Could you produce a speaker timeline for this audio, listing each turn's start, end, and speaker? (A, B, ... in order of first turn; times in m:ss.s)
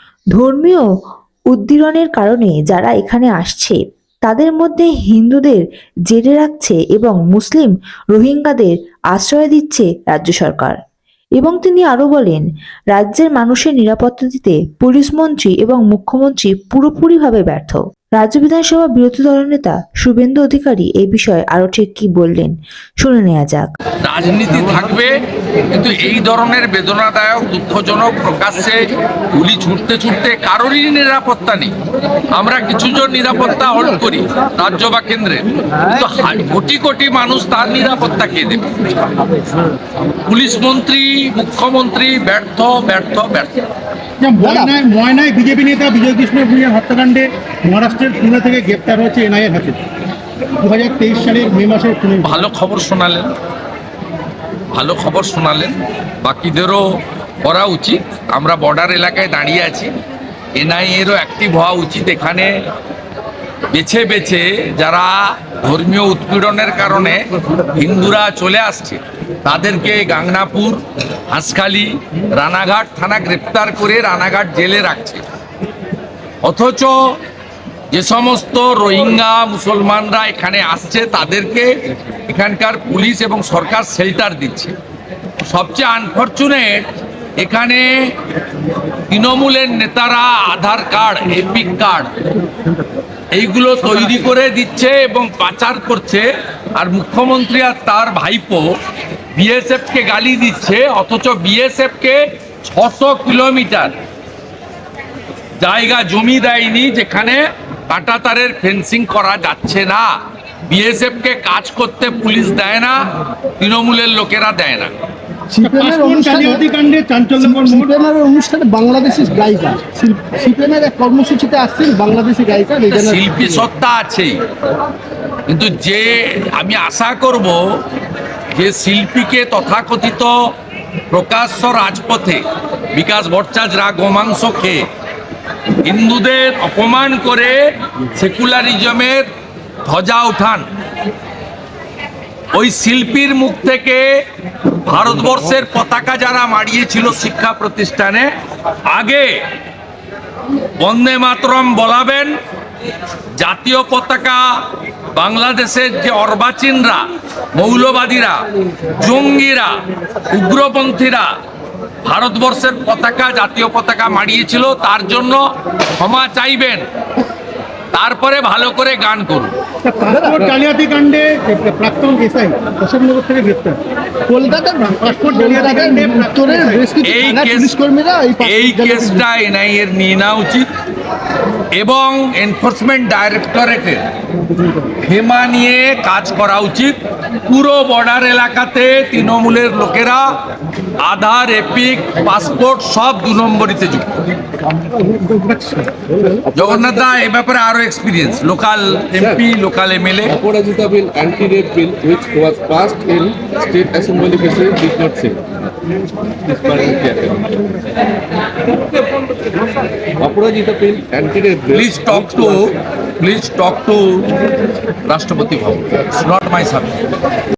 0:00.4-0:00.8 A
0:01.5-0:10.8 A
0:11.4-0:23.7 A
0:24.0-0:25.1 B
0:25.7-0:28.8 B
0:29.3-0:31.7 B
0:32.3-0:38.7 B
0:40.2-0:43.5 B
0:44.2-0:49.8 C
0:44.4-0:44.7 D
0:50.6-0:52.3 C
0:52.2-0:53.3 B
0:54.7-0:56.8 B
0:57.4-0:59.9 B
1:00.6-1:02.5 B
1:03.7-1:07.2 B
1:07.7-1:15.2 B
1:16.4-1:17.0 B
1:17.9-1:21.8 B
1:22.3-1:24.7 B
1:25.4-1:26.9 B
1:27.4-1:28.1 B
1:29.1-1:32.1 B
1:33.3-1:38.8 B
1:39.4-1:43.9 B
1:45.6-1:50.1 B
1:50.7-1:53.0 B
1:53.6-1:54.9 B
1:55.5-1:56.7 D
1:55.6-1:58.0 C
1:57.4-2:03.7 D
2:02.9-2:04.4 B
2:05.5-2:07.6 B
2:08.6-2:10.4 B
2:11.1-2:12.4 B
2:12.9-2:14.8 B
2:15.8-2:19.2 B
2:19.8-2:20.6 B
2:22.5-2:24.2 B
2:24.9-2:28.3 B
2:28.9-2:29.4 B
2:30.8-2:32.4 B
2:33.4-2:37.0 B
2:37.6-2:38.4 B
2:39.0-2:39.8 B
2:40.3-2:41.3 B
2:42.1-2:46.8 B
2:47.9-2:49.5 B
2:49.8-2:53.8 C
2:50.1-2:50.6 D
2:54.3-2:59.2 D
2:55.0-2:56.9 C
2:57.0-2:57.8 B
2:58.4-3:00.7 B
3:01.7-3:04.0 B
3:05.0-3:10.4 B
3:11.0-3:14.2 B
3:15.2-3:15.9 C
3:16.5-3:20.4 B
3:20.4-3:25.4 E
3:26.5-3:27.5 E
3:30.2-3:31.8 E
3:31.7-3:32.6 B
3:33.2-3:34.4 B
3:35.1-3:37.0 B